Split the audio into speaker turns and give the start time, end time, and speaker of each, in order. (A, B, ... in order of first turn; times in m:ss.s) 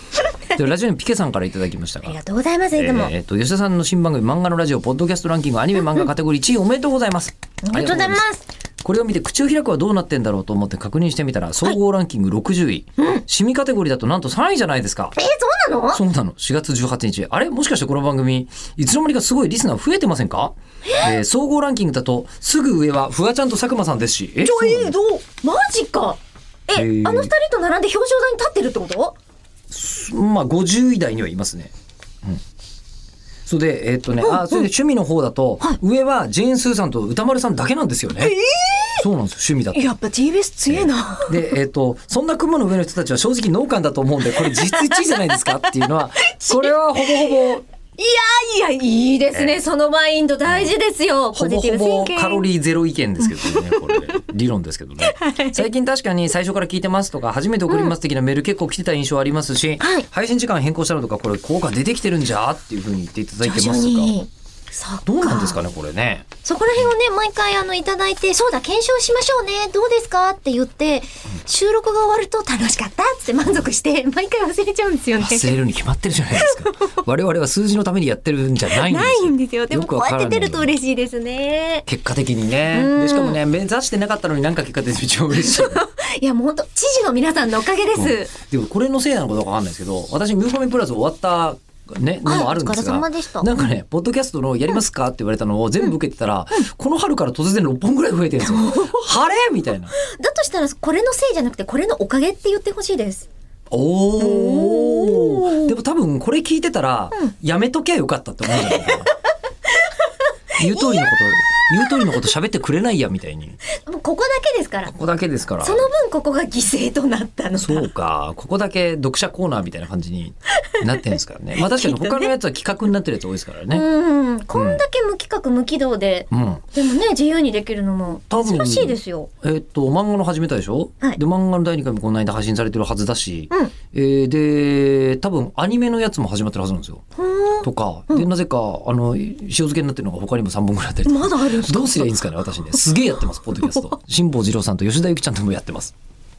0:00.5-0:02.2 A
0:02.0-0:03.1 B
0:02.7-0:08.2 A
0:07.6-0:08.4 B
0:08.8-0:15.2 A
0:15.2-0:16.0 B
0:15.9-0:24.9 A
0:20.9-0:21.1 B
0:24.4-0:29.2 B
0:26.7-0:27.3 A
0:29.7-0:31.7 A
0:33.4-0:38.4 A
0:34.2-0:34.6 B
0:38.2-0:39.0 B
0:39.0-0:39.8 A
0:39.7-0:41.5 B
0:40.7-0:47.6 A
0:44.4-0:45.6 B
0:46.3-0:47.4 B
0:48.0-0:52.4 B
0:51.4-1:04.1 A
0:53.2-0:54.1 B
0:55.0-0:55.6 B
0:57.7-0:57.9 B
0:59.8-1:00.1 B
1:03.4-1:05.6 B
1:05.0-1:06.3 A
1:06.4-1:15.5 B
1:15.2-1:20.7 A
1:16.3-1:16.7 B
1:18.7-1:21.8 B
1:21.8-1:25.8 A
1:22.7-1:23.4 B
1:25.3-1:28.3 B
1:27.9-1:39.9 A
1:32.2-1:33.5 B
1:38.4-1:39.0 B
1:40.0-1:43.3 B
1:43.7-1:49.1 A
1:44.2-1:45.8 B
1:48.4-1:49.1 B
1:50.5-1:53.6 A
1:50.6-1:51.1 B
1:53.8-1:54.9 B
1:54.9-1:55.9 A
1:55.6-1:57.9 B
1:57.6-2:03.8 A
2:01.6-2:02.3 B
2:03.7-2:09.3 B
2:04.5-2:04.8 A
2:06.3-2:06.6 A
2:08.3-2:17.0 A
2:17.2-2:18.3 B
2:17.6-2:25.9 A
2:21.0-2:22.2 B